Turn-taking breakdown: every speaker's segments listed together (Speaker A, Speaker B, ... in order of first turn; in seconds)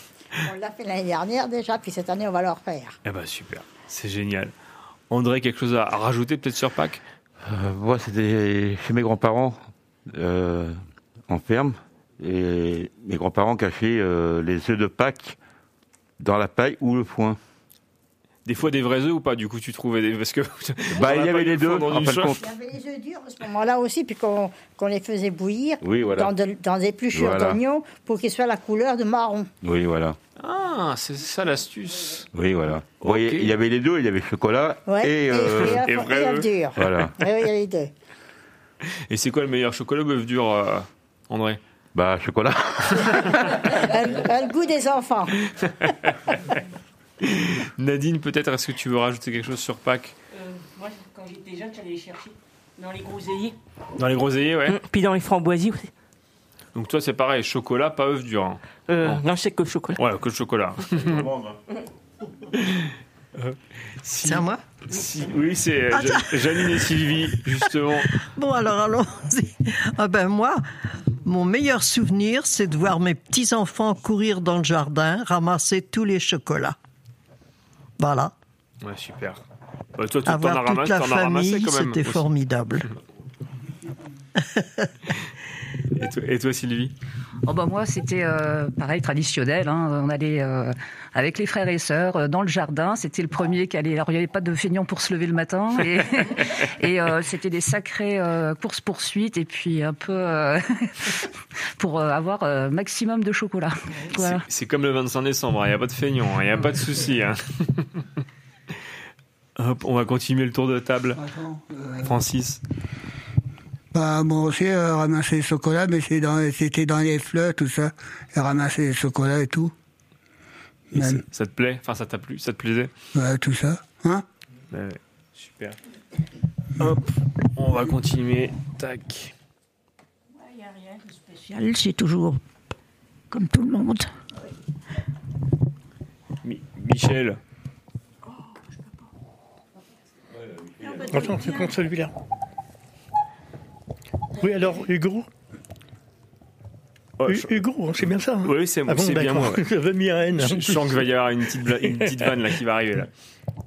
Speaker A: 0.3-3.0, 22.4-29.5, 34.9-37.9, 43.7-45.3
Speaker B: 3.0-4.5, 5.1-7.0, 18.4-22.4, 30.4-32.3, 33.0-33.5, 35.6-36.5, 39.1-41.6, 47.2-50.1, 54.0-54.8, 56.7-59.2, 60.0-61.3, 62.6-68.2, 78.8-79.4, 80.0-82.3, 85.9-86.9, 104.1-108.1, 109.6-111.3, 112.0-112.6, 121.0-122.9, 124.7-125.8, 126.8-129.3, 136.4-137.4, 147.2-147.5, 148.4-149.6, 150.4-153.1
Speaker C: 7.4-15.4, 16.2-17.4, 20.9-22.4, 25.8-26.3, 27.1-27.6, 29.6-30.1, 32.3-35.8, 36.8-37.1, 41.9-43.5, 61.1-61.4, 140.3-141.5
Speaker D: 50.3-53.5, 54.7-55.9, 58.9-60.0
Speaker E: 64.2-64.6, 66.0-66.8, 67.6-70.6, 71.2-76.8, 78.0-78.3, 80.3-82.9, 84.4-84.9
Speaker F: 87.4-101.3, 101.8-104.5
Speaker G: 111.3-112.0, 113.9-119.7, 120.9-121.2, 123.1-124.2, 131.6-132.4, 133.3-134.0
Speaker H: 141.0-142.1, 144.4-145.3, 147.2-151.0, 151.8-152.2